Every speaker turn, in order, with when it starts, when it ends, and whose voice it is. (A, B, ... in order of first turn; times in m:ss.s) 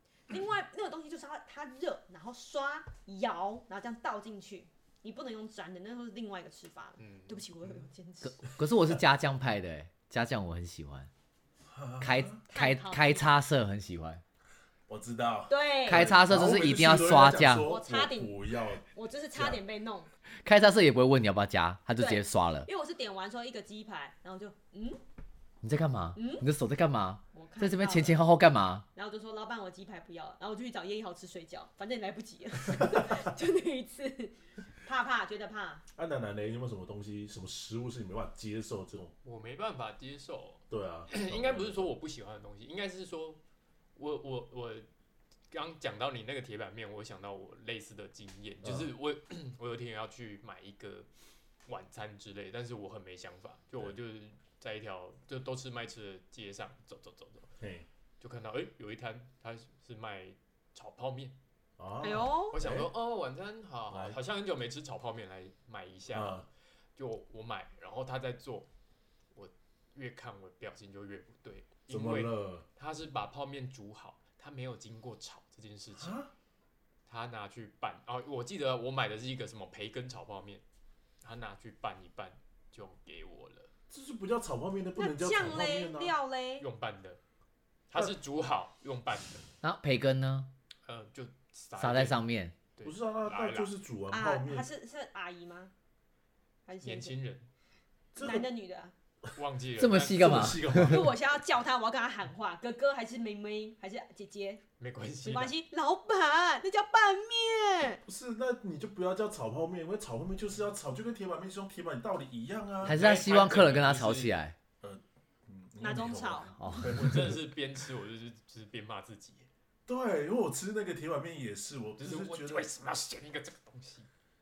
0:00.3-0:08.5 A
0:07.0-0:07.5 B
0:08.2-0:11.1 C
0:11.7-0:12.4 D
0:12.0-0:14.2 C
0:12.5-0:13.3 A
0:14.9-0:19.6 D
0:15.5-0:16.1 A
0:15.8-0:17.7 C
0:17.6-0:20.1 A
0:20.4-0:22.7 C
0:22.0-0:25.0 A
0:25.6-0:28.8 C
0:26.1-0:26.5 A
0:27.3-0:28.2 A
0:28.9-0:35.8 A
0:32.7-0:33.0 D
0:36.0-0:39.1 D
0:39.2-0:43.4 B
0:40.7-0:41.9 D
0:44.0-0:44.8 B
0:45.5-0:51.1 B
0:48.6-0:48.9 D
0:51.7-0:57.5 B
0:57.6-0:57.8 D
0:58.2-1:01.4 B
1:01.8-1:02.9 D
1:02.0-1:02.6 A
1:02.5-1:08.7 B
1:03.9-1:04.2 D
1:06.1-1:06.4 D
1:09.3-1:16.2 B
1:11.9-1:12.6 D
1:15.9-1:16.3 D
1:17.1-1:20.6 B
1:21.2-1:23.7 B
1:23.9-1:26.1 D
1:25.0-1:26.6 A
1:26.6-1:27.2 B
1:27.9-1:29.4 B
1:29.6-1:30.5 C
1:30.8-1:32.2 B
1:31.8-1:32.5 C
1:32.8-1:33.7 B
1:32.8-1:34.7 D
1:34.1-1:35.7 A
1:36.6-1:37.2 A
1:36.8-1:37.5 B
1:38.1-1:38.5 D
1:38.2-1:38.9 A
1:39.4-1:40.6 B
1:39.8-1:41.1 C
1:40.1-1:41.2 D
1:40.8-1:44.6 A
1:44.8-1:45.5 B
1:45.2-1:48.0 A
1:48.1-1:53.0 D
1:52.8-1:54.3 B
1:52.8-1:54.6 C
1:54.8-1:57.4 D
1:55.8-1:56.7 A
1:56.6-1:57.1 C
1:56.8-1:59.5 B
1:59.9-2:02.7 D
2:02.0-2:04.1 B